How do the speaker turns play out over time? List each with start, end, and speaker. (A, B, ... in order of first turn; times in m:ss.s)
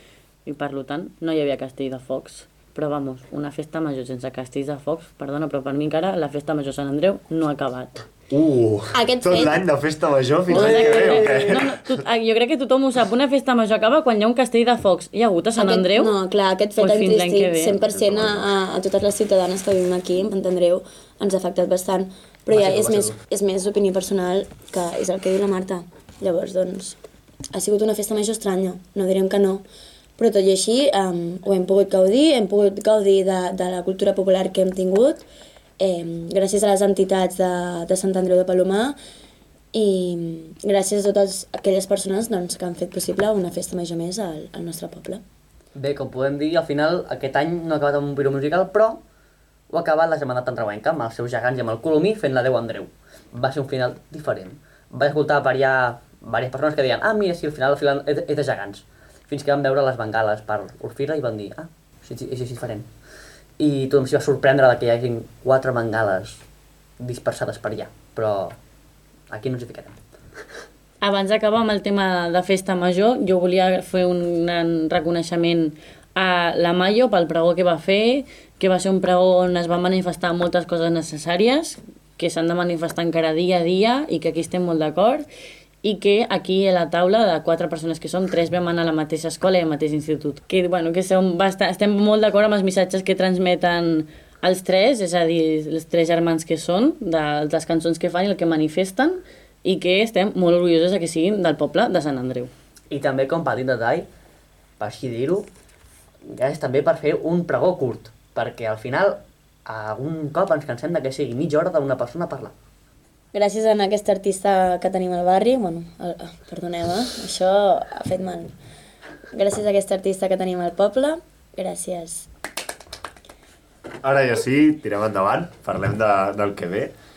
0:00.4-0:08.1 A
0:08.3-0:12.0 B
0:08.9-0:09.6 C
0:10.5-0:11.6 D
0:10.5-0:16.2 A
0:15.6-0:27.0 C
0:16.8-0:17.8 A
0:17.8-0:18.5 B
0:22.5-0:23.1 B
0:27.5-0:29.6 C
0:30.2-0:35.2 C
0:35.8-0:39.0 C
0:39.7-0:45.2 C
0:45.8-0:49.0 D
0:49.7-1:02.9 D
1:03.6-1:06.4 D
1:07.0-1:08.6 D
1:09.3-1:10.0 D
1:11.0-1:25.2 A
1:25.8-1:42.5 A
1:42.9-1:44.1 D
1:44.8-1:45.5 D
1:46.3-1:52.5 D
1:53.3-1:58.5 C
1:59.3-2:02.3 C
2:04.0-2:06.9 B